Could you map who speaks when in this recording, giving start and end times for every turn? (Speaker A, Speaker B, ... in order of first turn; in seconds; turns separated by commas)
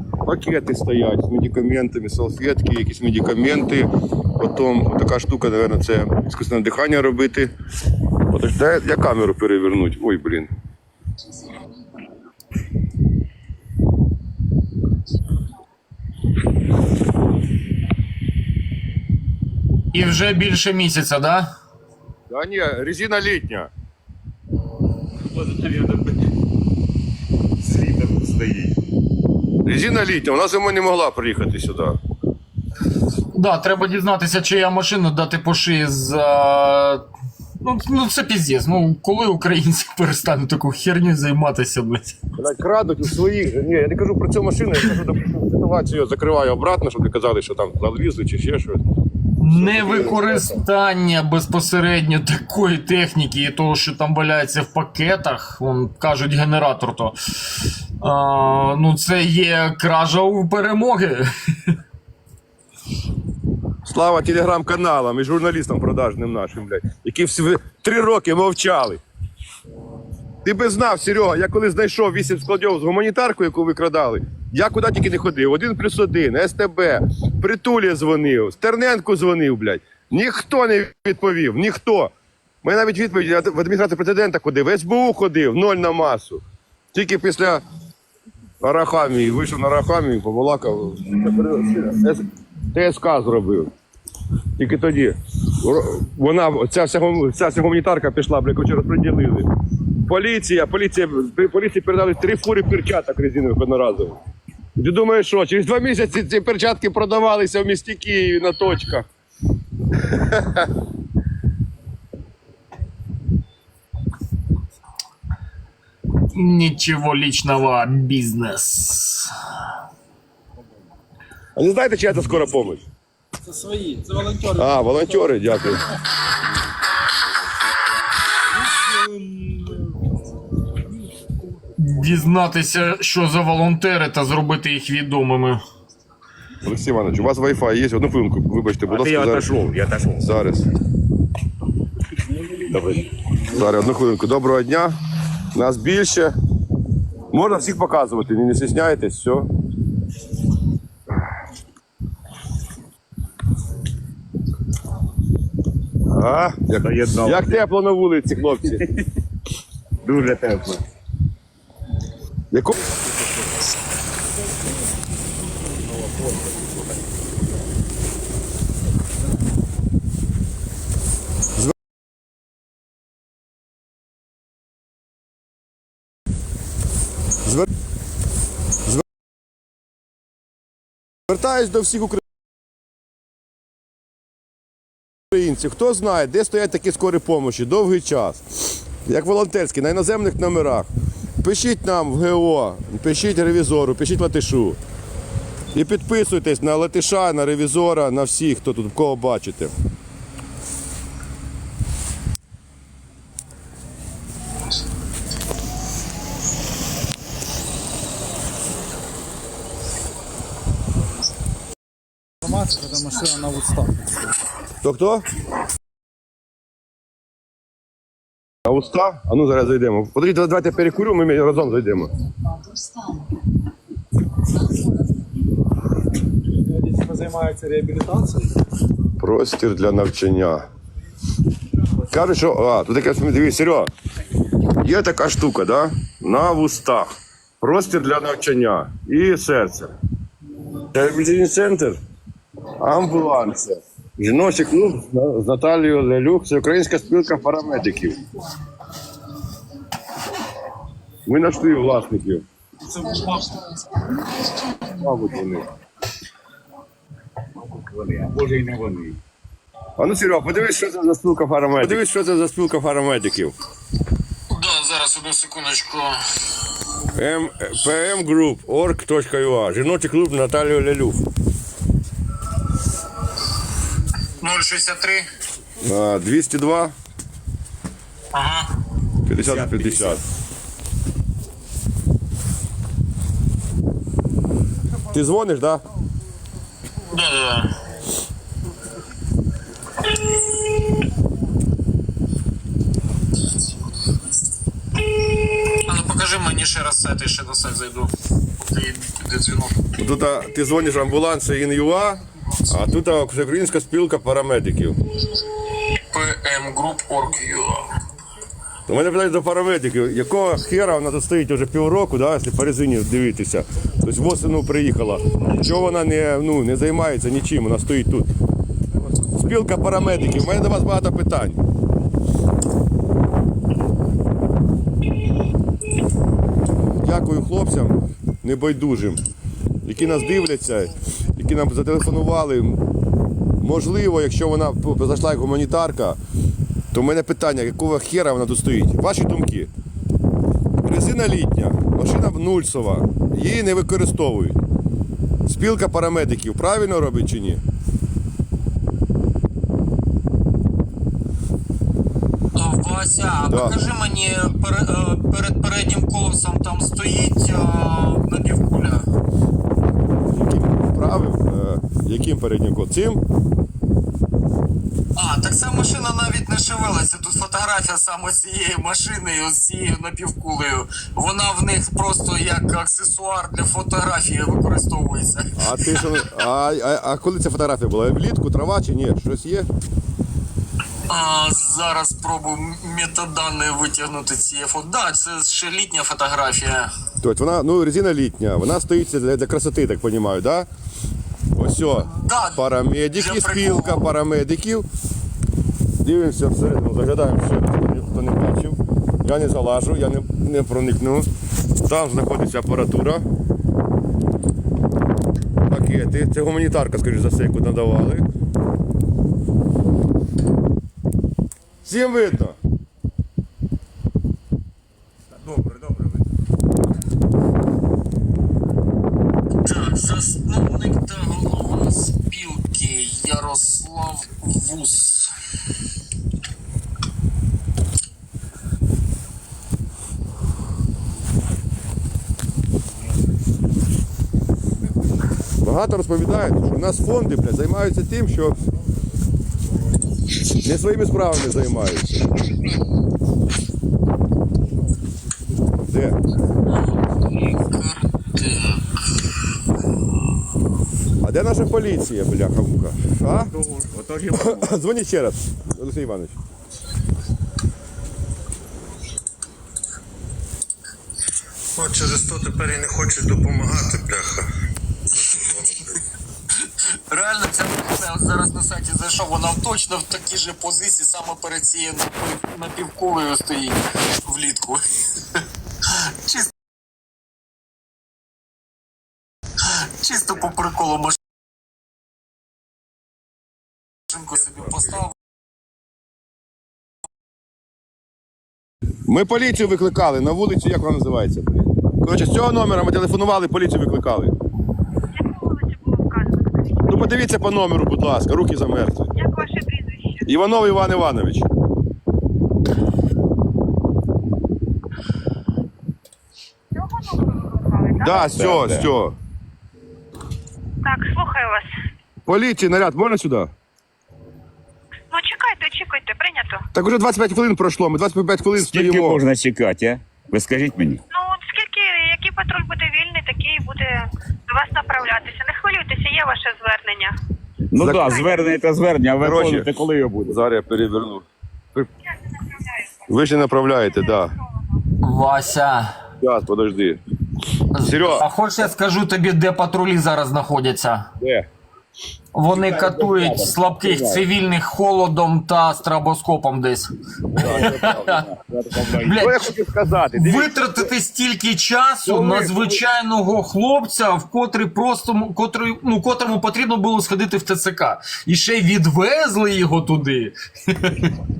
Speaker A: 0.2-7.5, Speaker A: 8.3-10.5, Speaker B: 19.9-21.5, Speaker A: 22.3-23.7, Speaker C: 25.4-26.1, Speaker C: 27.6-28.8, Speaker A: 29.6-32.0, Speaker B: 33.3-37.0, Speaker B: 37.6-42.1, Speaker A: 42.4-48.8, Speaker B: 49.4-61.2, Speaker A: 49.5-50.6, Speaker A: 63.8-69.0, Speaker A: 70.4-82.1, Speaker A: 82.6-86.4, Speaker A: 86.9-87.6, Speaker A: 88.6-93.7, Speaker A: 94.6-99.5, Speaker A: 100.0-104.2, Speaker A: 104.8-109.0, Speaker A: 110.0-110.7, Speaker B: 116.3-119.3, Speaker A: 121.5-122.8, Speaker D: 123.5-125.2, Speaker A: 124.5-125.9, Speaker D: 128.8-129.7, Speaker B: 131.8-135.6, Speaker A: 136.6-139.5, Speaker C: 138.9-140.2, Speaker A: 140.2-140.7, Speaker C: 142.7-143.1, Speaker A: 143.5-144.9, Speaker A: 145.5-146.3, Speaker A: 147.3-149.5, Speaker A: 156.1-158.8, Speaker C: 156.8-157.6, Speaker C: 158.7-159.0, Speaker C: 160.0-160.8, Speaker A: 162.5-162.8, Speaker A: 181.3-182.2, Speaker A: 185.3-190.9, Speaker A: 191.4-194.8, Speaker A: 195.7-199.7, Speaker D: 212.4-213.9, Speaker A: 214.8-215.2, Speaker A: 218.7-222.1, Speaker D: 226.6-228.5, Speaker A: 229.2-230.7, Speaker A: 232.1-233.9, Speaker A: 234.8-237.1, Speaker A: 237.6-239.9, Speaker A: 240.9-242.0, Speaker A: 242.8-248.2, Speaker A: 251.2-252.4, Speaker C: 253.2-253.5, Speaker A: 254.9-255.7, Speaker C: 257.6-259.2, Speaker A: 260.0-263.5, Speaker B: 264.5-266.2, Speaker A: 267.1-271.2, Speaker B: 274.4-275.2, Speaker A: 275.8-276.9, Speaker B: 278.3-278.7, Speaker A: 279.3-280.2, Speaker C: 279.4-280.2, Speaker A: 285.1-285.8, Speaker B: 287.1-287.7, Speaker B: 295.6-299.7, Speaker A: 300.0-305.0, Speaker B: 306.1-307.9, Speaker A: 308.9-318.3, Speaker A: 319.3-321.6, Speaker A: 327.0-329.2, Speaker A: 329.8-332.8, Speaker A: 333.6-336.2, Speaker A: 336.9-339.7, Speaker A: 340.8-344.6, Speaker A: 345.4-347.6, Speaker B: 352.5-359.0, Speaker A: 353.5-353.8, Speaker A: 360.3-363.2, Speaker B: 365.1-376.1, Speaker A: 375.6-379.7, Speaker B: 381.1-386.9, Speaker A: 387.2-390.7, Speaker A: 391.6-394.9, Speaker B: 392.1-394.0, Speaker A: 396.0-401.3, Speaker A: 401.8-403.2, Speaker A: 405.6-408.2, Speaker A: 411.8-412.6, Speaker C: 415.5-416.0, Speaker B: 419.6-425.3, Speaker A: 435.6-438.6, Speaker A: 440.6-442.3, Speaker A: 445.9-446.1, Speaker B: 446.7-448.9, Speaker A: 451.2-453.5, Speaker C: 453.3-454.7, Speaker A: 454.3-456.4, Speaker E: 461.8-464.5, Speaker E: 465.3-465.8, Speaker B: 466.6-474.8, Speaker B: 475.4-476.5, Speaker B: 479.6-481.1, Speaker B: 484.1-485.1, Speaker A: 489.1-494.3, Speaker F: 495.2-497.1, Speaker A: 496.9-499.1, Speaker F: 499.1-500.2, Speaker A: 500.2-501.5, Speaker F: 506.8-508.3, Speaker A: 508.0-509.1, Speaker C: 508.3-508.9, Speaker F: 510.8-511.7, Speaker A: 512.2-513.5, Speaker F: 515.1-516.6, Speaker A: 516.7-519.2, Speaker C: 518.5-521.0, Speaker F: 521.1-527.1, Speaker C: 527.7-530.4, Speaker A: 527.8-528.1, Speaker F: 528.0-528.4, Speaker A: 529.2-529.7, Speaker A: 530.3-531.9, Speaker F: 532.6-532.9, Speaker A: 533.1-534.3, Speaker B: 535.0-535.9, Speaker A: 536.2-537.0, Speaker B: 537.7-541.1, Speaker A: 537.8-538.2, Speaker A: 541.2-541.5, Speaker B: 542.3-548.2, Speaker C: 542.5-544.2, Speaker C: 547.3-549.2, Speaker A: 547.4-547.7, Speaker B: 549.0-549.5, Speaker A: 549.1-550.9, Speaker B: 550.1-561.1, Speaker A: 552.0-552.8